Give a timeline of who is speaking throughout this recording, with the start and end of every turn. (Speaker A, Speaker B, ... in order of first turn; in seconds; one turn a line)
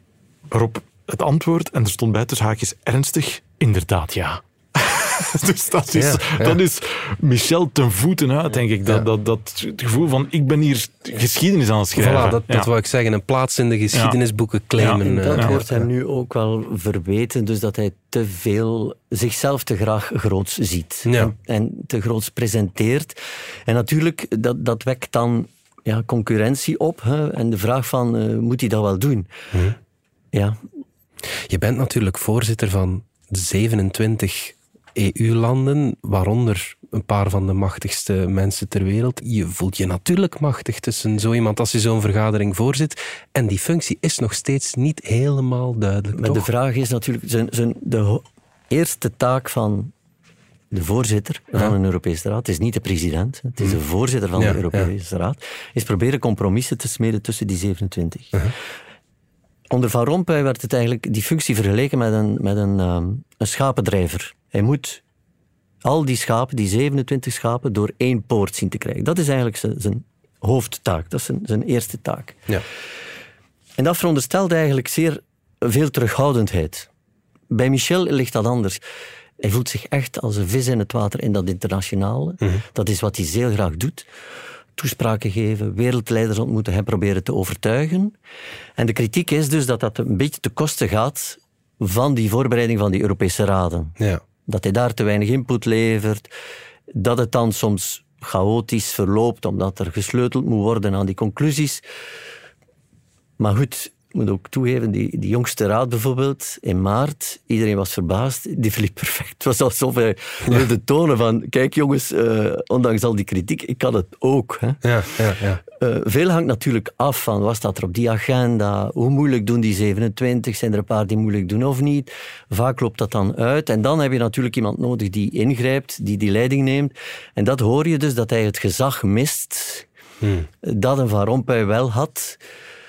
Speaker A: 0.5-12.7
Speaker B: 5.9-6.6
Speaker B: 11.9-15.8
Speaker A: 14.8-15.6
Speaker C: 15.0-29.3
Speaker B: 21.0-21.3
Speaker C: 30.3-30.6
Speaker B: 31.3-46.5
Speaker C: 46.1-49.9
Speaker C: 50.7-58.4
Speaker B: 54.4-54.9
Speaker C: 59.7-65.0
Speaker C: 65.8-72.4
Speaker C: 73.8-76.9
Speaker C: 77.5-78.8
Speaker C: 79.4-84.1
Speaker C: 84.8-88.1
Speaker C: 88.8-94.0
Speaker C: 94.5-96.3
Speaker C: 96.9-101.8
Speaker C: 103.4-114.8
Speaker B: 114.8-115.6
Speaker C: 115.7-129.9
Speaker B: 130.2-130.5
Speaker C: 130.6-132.4